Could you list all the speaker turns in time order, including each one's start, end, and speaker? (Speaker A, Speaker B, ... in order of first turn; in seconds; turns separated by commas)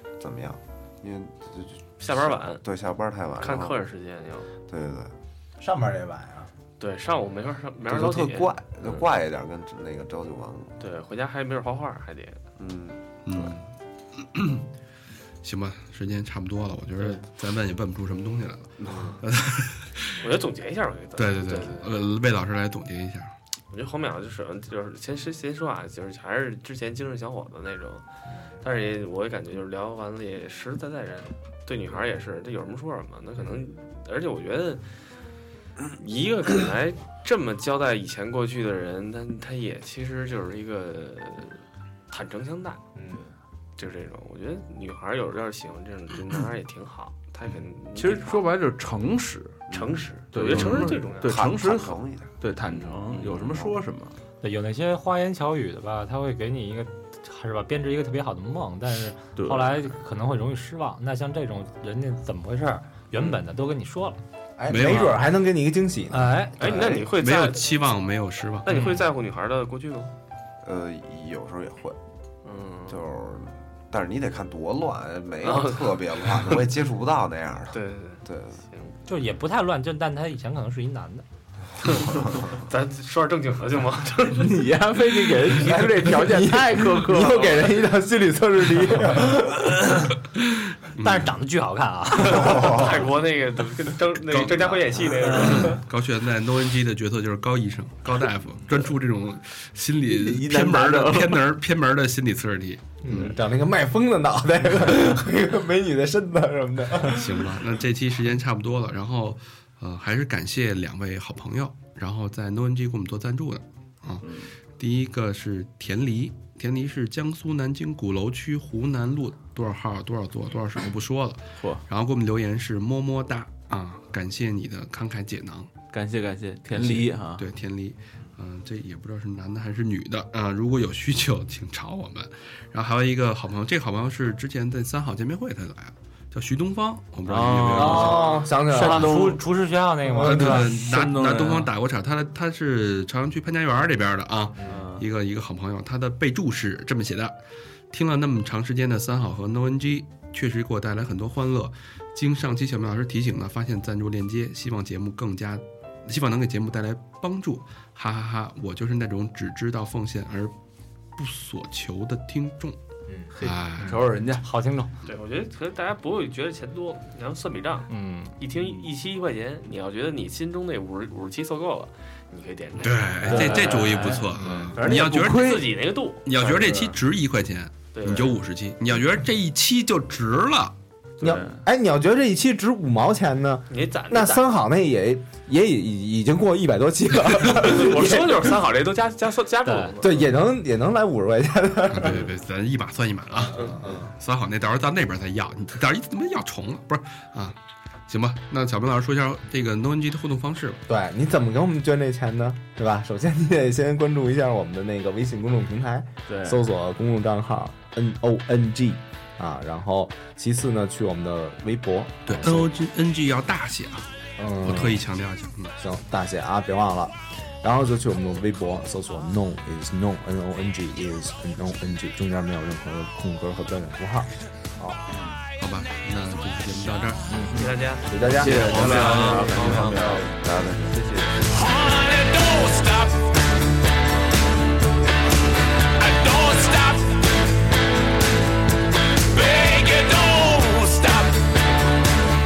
Speaker A: 0.2-3.8, Speaker B: 2.0-2.6, Speaker B: 3.4-4.5, Speaker A: 4.7-5.1, Speaker C: 5.6-6.5, Speaker B: 6.8-9.1, Speaker A: 7.8-10.8, Speaker B: 10.8-12.4, Speaker A: 12.6-13.5, Speaker D: 13.2-14.6, Speaker D: 15.4-20.2, Speaker A: 18.8-19.2, Speaker B: 18.9-19.2, Speaker B: 20.2-21.9, Speaker D: 21.1-23.3, Speaker B: 23.7-28.0, Speaker B: 28.6-34.8, Speaker B: 36.0-42.8, Speaker C: 43.0-43.2, Speaker B: 43.8-48.4, Speaker E: 47.9-49.6, Speaker B: 49.7-51.4, Speaker A: 49.7-52.3, Speaker E: 50.3-54.1, Speaker A: 53.2-53.8, Speaker F: 54.4-64.2, Speaker E: 59.4-59.8, Speaker C: 64.6-66.6, Speaker D: 64.7-65.2, Speaker F: 66.1-66.8, Speaker B: 66.6-67.7, Speaker A: 66.6-67.0, Speaker D: 66.9-68.8, Speaker B: 68.6-70.1, Speaker F: 68.7-68.9, Speaker A: 70.6-72.0, Speaker B: 72.4-73.0, Speaker A: 72.9-78.6, Speaker B: 75.4-76.6, Speaker B: 77.7-78.9, Speaker F: 79.1-81.2, Speaker B: 81.8-84.5, Speaker E: 84.3-87.5, Speaker C: 85.5-90.1, Speaker B: 87.3-87.7, Speaker D: 90.9-91.3, Speaker F: 91.0-92.8, Speaker A: 92.2-92.9, Speaker B: 92.3-95.8, Speaker D: 94.3-103.3, Speaker E: 100.0-101.4, Speaker C: 103.0-107.5, Speaker D: 107.1-125.7, Speaker E: 114.2-114.5, Speaker E: 125.9-127.4, Speaker D: 126.7-138.3, Speaker E: 137.2-139.4, Speaker C: 137.8-139.4, Speaker F: 137.8-138.1, Speaker F: 138.7-140.7, Speaker C: 140.0-140.6, Speaker D: 140.2-147.3, Speaker E: 140.3-141.7, Speaker E: 144.6-145.0, Speaker D: 147.9-160.5, Speaker D: 161.2-162.8, Speaker D: 163.4-164.0, Speaker E: 163.4-164.4, Speaker F: 164.4-164.9, Speaker B: 165.1-174.2, Speaker F: 167.9-168.4, Speaker D: 172.8-180.7, Speaker F: 173.2-175.1, Speaker C: 173.4-173.7, Speaker C: 174.3-174.8, Speaker E: 174.4-175.7, Speaker B: 174.8-177.0, Speaker B: 177.9-178.4, Speaker E: 181.2-181.6, Speaker C: 181.2-188.4, Speaker B: 183.7-184.5, Speaker B: 187.6-190.3, Speaker F: 189.6-190.0, Speaker C: 190.0-192.3, Speaker D: 191.9-197.6, Speaker B: 193.5-193.8, Speaker C: 193.5-194.1, Speaker D: 198.1-200.8, Speaker C: 200.9-212.7, Speaker E: 206.3-206.6, Speaker D: 212.3-214.1, Speaker C: 214.4-215.0, Speaker D: 214.6-215.7, Speaker C: 215.8-225.0, Speaker E: 225.1-225.4, Speaker D: 225.6-227.3, Speaker E: 227.5-231.5, Speaker B: 227.5-228.1, Speaker C: 228.1-228.8, Speaker D: 228.4-230.0, Speaker B: 228.7-230.2, Speaker A: 230.4-231.0, Speaker G: 231.4-233.3, Speaker G: 236.0-237.3, Speaker G: 239.3-241.5